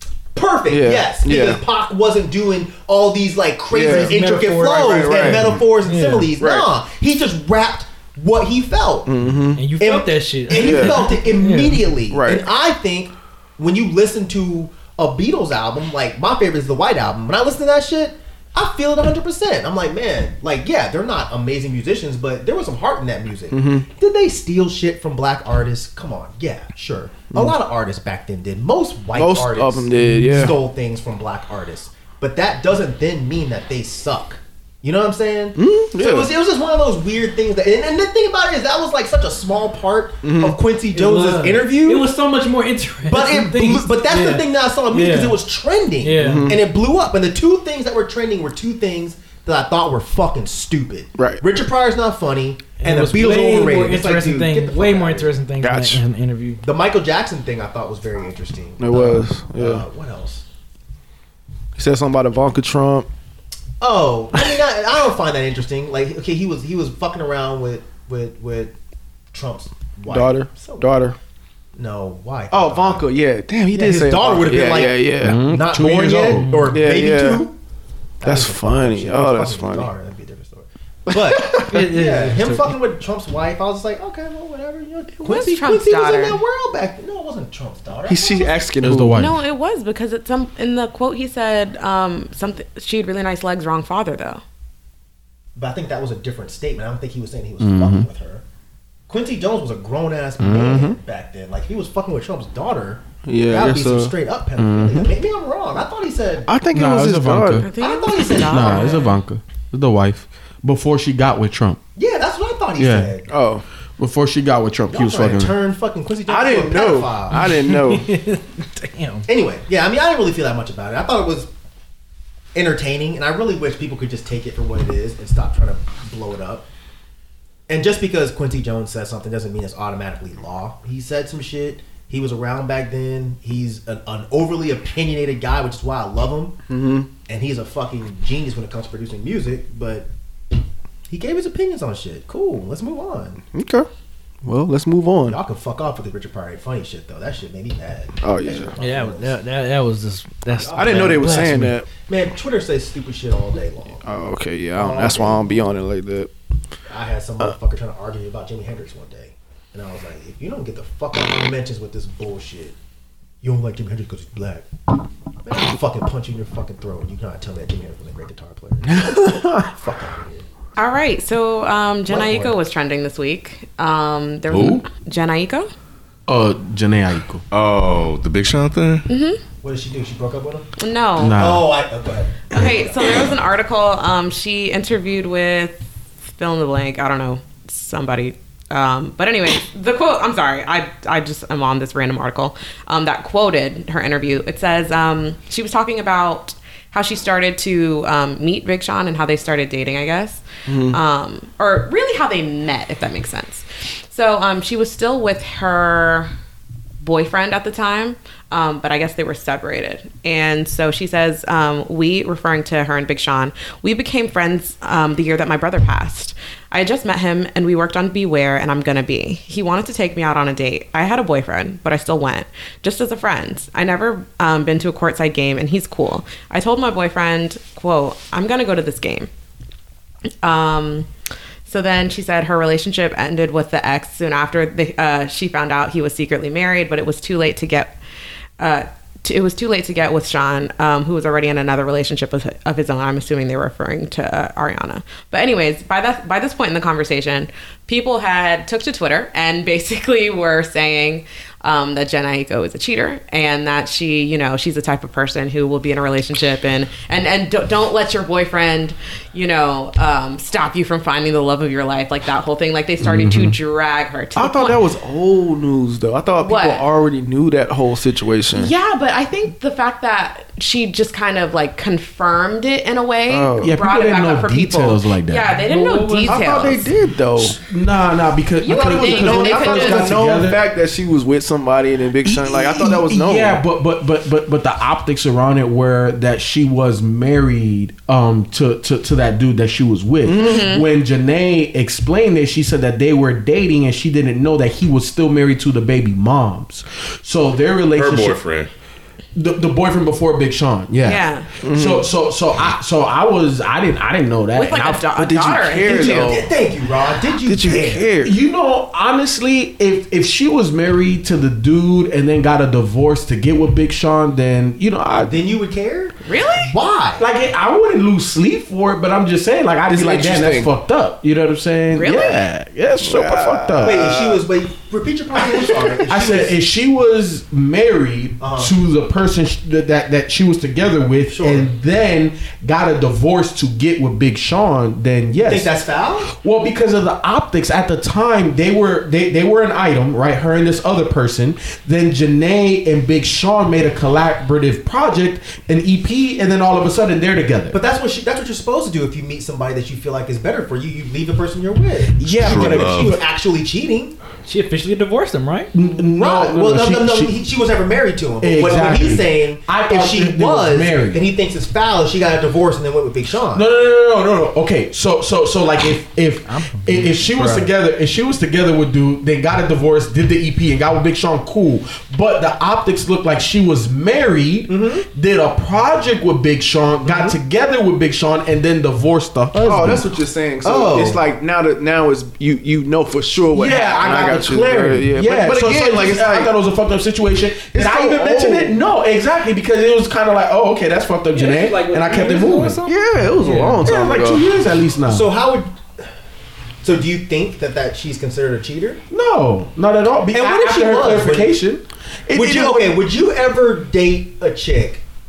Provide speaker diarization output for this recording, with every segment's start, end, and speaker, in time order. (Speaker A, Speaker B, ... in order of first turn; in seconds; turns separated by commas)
Speaker A: 0.3-9.2, Speaker B: 0.7-1.6, Speaker B: 3.7-4.3, Speaker C: 3.7-5.3, Speaker B: 4.8-5.6, Speaker C: 5.8-6.3, Speaker B: 6.4-6.7, Speaker B: 9.1-9.7, Speaker C: 9.6-12.0, Speaker A: 9.8-42.1, Speaker B: 10.5-11.1, Speaker B: 12.1-12.4, Speaker B: 23.5-23.9, Speaker B: 29.1-30.6, Speaker C: 30.1-30.4, Speaker B: 35.6-36.3, Speaker B: 40.2-40.6, Speaker C: 40.9-45.4, Speaker A: 43.1-55.4, Speaker C: 46.0-46.5, Speaker B: 46.2-46.6, Speaker B: 51.2-51.4, Speaker C: 52.8-56.6, Speaker B: 55.6-56.0, Speaker A: 56.6-60.4, Speaker B: 58.8-59.8, Speaker B: 61.8-63.1, Speaker A: 63.8-68.7, Speaker A: 69.3-70.9, Speaker B: 70.1-71.2, Speaker A: 71.8-73.1, Speaker B: 72.5-75.5, Speaker A: 73.7-77.5, Speaker D: 75.2-76.5, Speaker C: 76.4-76.8, Speaker B: 76.7-77.5, Speaker A: 78.2-88.5, Speaker B: 78.2-79.9, Speaker B: 81.1-81.7, Speaker C: 81.6-82.8, Speaker E: 85.2-86.4, Speaker B: 88.1-89.2, Speaker D: 88.8-89.4, Speaker E: 89.1-94.4, Speaker A: 95.6-98.4, Speaker D: 97.6-98.1, Speaker A: 99.1-106.5, Speaker D: 100.4-101.0, Speaker B: 103.2-104.1, Speaker D: 104.6-105.1, Speaker B: 106.5-107.7, Speaker D: 106.7-107.7, Speaker E: 107.6-109.1, Speaker A: 107.8-109.1, Speaker D: 108.5-111.8, Speaker A: 112.0-113.3, Speaker D: 112.8-113.1, Speaker B: 113.3-113.6, Speaker D: 114.0-115.5, Speaker A: 114.9-117.5, Speaker B: 116.3-118.1, Speaker C: 117.4-119.3, Speaker A: 119.3-121.5, Speaker A: 122.5-126.7, Speaker A: 127.7-136.6, Speaker B: 136.7-137.1, Speaker A: 137.3-140.1, Speaker A: 141.1-143.4, Speaker B: 143.5-143.9, Speaker B: 144.4-145.4, Speaker A: 145.3-149.4, Speaker B: 148.2-148.8, Speaker C: 148.8-151.8, Speaker A: 150.6-154.1, Speaker B: 150.8-151.9, Speaker B: 154.0-156.3, Speaker A: 154.8-155.7, Speaker A: 156.9-162.8, Speaker A: 163.4-164.7, Speaker A: 165.4-170.4, Speaker E: 170.8-175.7, Speaker A: 172.1-172.6, Speaker F: 174.5-174.8, Speaker D: 174.5-174.8, Speaker D: 176.3-177.4, Speaker F: 177.5-179.1, Speaker E: 179.1-179.4, Speaker A: 179.6-180.7, Speaker E: 180.8-181.4, Speaker D: 181.2-181.7, Speaker A: 181.3-183.1, Speaker E: 182.5-206.3, Speaker B: 200.7-201.0, Speaker E: 207.0-229.3, Speaker E: 230.4-231.1, Speaker E: 231.7-238.0, Speaker E: 238.6-264.8, Speaker D: 263.0-263.6, Speaker B: 264.4-268.7, Speaker E: 266.4-266.8, Speaker E: 268.5-276.9, Speaker B: 273.3-273.7, Speaker D: 273.6-275.6, Speaker C: 275.6-276.7, Speaker B: 276.3-277.6, Speaker D: 277.4-280.6, Speaker E: 278.6-280.2, Speaker B: 278.8-283.6, Speaker D: 282.2-298.4, Speaker B: 290.2-290.6, Speaker E: 290.3-290.8, Speaker F: 298.0-298.7, Speaker D: 299.4-305.2, Speaker E: 301.1-301.5, Speaker B: 301.6-302.1, Speaker E: 304.6-306.4, Speaker B: 305.2-306.5, Speaker A: 305.9-308.1, Speaker B: 307.5-308.3, Speaker D: 308.2-315.4, Speaker A: 315.2-317.2, Speaker E: 316.2-316.7, Speaker D: 317.2-324.0, Speaker B: 319.9-320.7, Speaker E: 321.9-322.4, Speaker B: 323.0-324.4, Speaker A: 323.8-326.5, Speaker D: 326.1-335.7, Speaker A: 328.4-328.7, Speaker A: 331.3-331.7, Speaker A: 335.5-336.3, Speaker D: 336.3-347.8, Speaker A: 347.7-354.2, Speaker D: 352.2-353.2, Speaker F: 352.4-353.2, Speaker C: 354.4-355.7, Speaker D: 355.7-357.4, Speaker A: 356.1-363.7, Speaker D: 358.4-361.2, Speaker D: 363.5-380.1, Speaker C: 366.5-367.2, Speaker A: 374.7-375.1, Speaker B: 379.6-386.5, Speaker A: 380.6-381.2, Speaker D: 383.5-392.8, Speaker B: 387.7-388.8, Speaker C: 391.3-393.9, Speaker B: 392.8-394.4, Speaker D: 393.5-395.3, Speaker A: 395.1-396.1, Speaker A: 396.8-399.0, Speaker D: 399.1-403.0, Speaker A: 400.3-401.6, Speaker A: 402.3-405.0